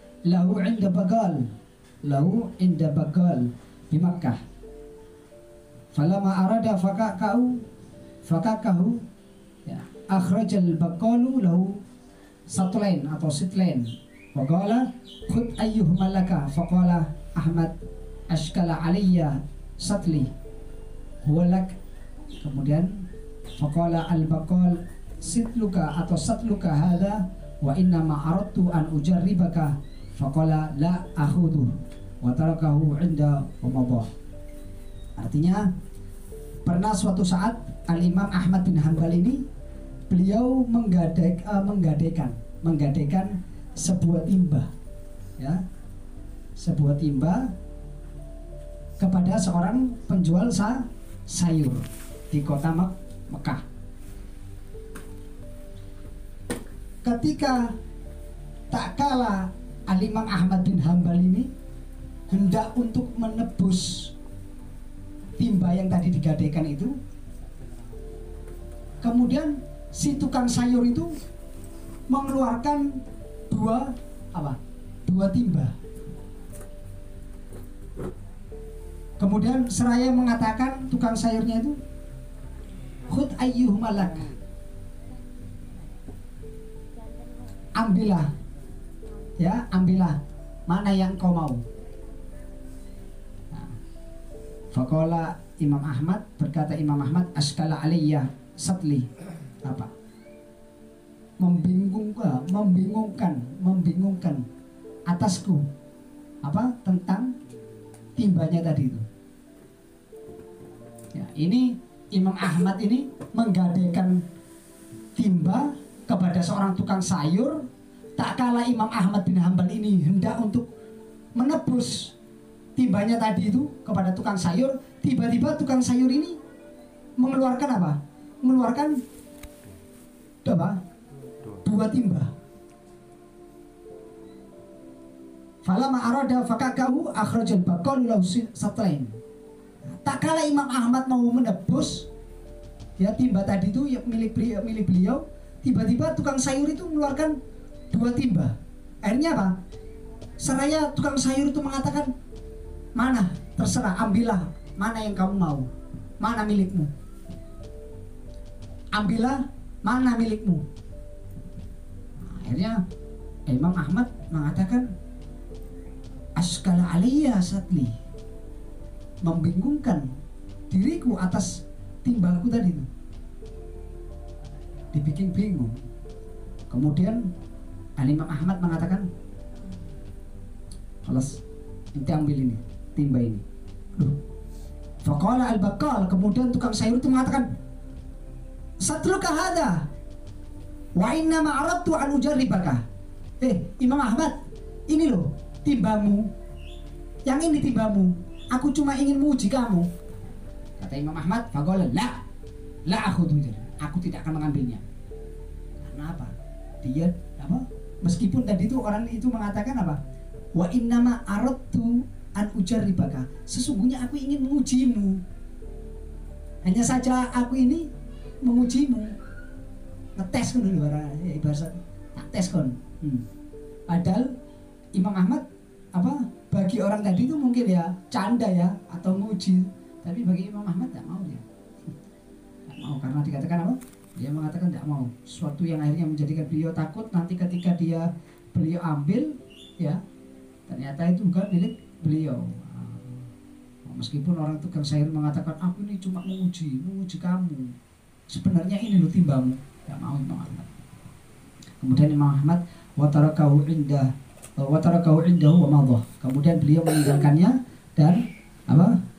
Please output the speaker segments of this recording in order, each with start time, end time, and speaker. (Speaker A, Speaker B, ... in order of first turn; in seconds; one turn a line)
Speaker A: 0.2-1.5
Speaker A: 2.0-4.4
Speaker A: 5.9-7.6
Speaker A: 8.2-9.0
Speaker A: 9.7-11.8
Speaker A: 12.5-17.7
Speaker A: 18.3-20.3
Speaker A: 21.2-21.8
Speaker A: 22.4-23.0
Speaker A: 23.6-34.1
Speaker A: 35.2-35.7
Speaker A: 36.6-39.4
Speaker A: 40.1-44.7
Speaker A: 45.4-45.6
Speaker A: 46.6-47.5
Speaker A: 49.0-53.6
Speaker A: 57.0-57.7
Speaker A: 58.7-61.5
Speaker A: 62.3-64.1
Speaker A: 65.4-67.0
Speaker A: 69.0-71.2
Speaker A: 72.1-75.7
Speaker A: 79.2-81.8
Speaker A: 83.1-84.3
Speaker A: 87.7-88.3
Speaker A: 89.4-91.6
Speaker A: 94.7-99.1
Speaker A: 99.6-99.9
Speaker A: 101.4-104.4
Speaker A: 105.1-105.7
Speaker A: 106.4-107.3
Speaker A: 108.2-109.0
Speaker A: 111.1-114.2
Speaker A: 115.2-117.7
Speaker A: 118.2-120.7
Speaker A: 121.3-122.1
Speaker A: 122.8-126.4
Speaker A: 127.2-129.0
Speaker A: 130.4-130.8
Speaker A: 131.6-132.3
Speaker A: 135.6-139.1
Speaker A: 139.9-142.1
Speaker A: 143.0-147.4
Speaker A: 147.9-149.6
Speaker A: 150.4-152.1
Speaker A: 152.9-155.7
Speaker A: 156.2-156.9
Speaker A: 158.9-160.6
Speaker A: 162.2-162.8
Speaker A: 163.5-164.9
Speaker A: 166.4-167.9
Speaker A: 169.2-170.1
Speaker A: 170.7-172.9
Speaker A: 174.9-175.8
Speaker A: 176.7-177.2
Speaker A: 178.0-179.1
Speaker A: 181.0-181.4
Speaker A: 181.9-183.4
Speaker A: 185.0-187.5
Speaker A: 188.8-189.8
Speaker A: 190.9-192.8
Speaker A: 193.4-194.4
Speaker A: 194.9-196.3
Speaker A: 197.2-199.9
Speaker A: 200.8-202.2
Speaker A: 202.8-204.8
Speaker A: 205.8-210.0
Speaker A: 210.5-215.2
Speaker A: 216.6-217.9
Speaker A: 218.4-219.1
Speaker A: 220.2-223.2
Speaker A: 223.9-224.3
Speaker A: 224.9-231.4
Speaker A: 232.7-240.0
Speaker A: 240.7-243.3
Speaker A: 243.8-247.7
Speaker A: 248.3-250.7
Speaker A: 251.8-259.0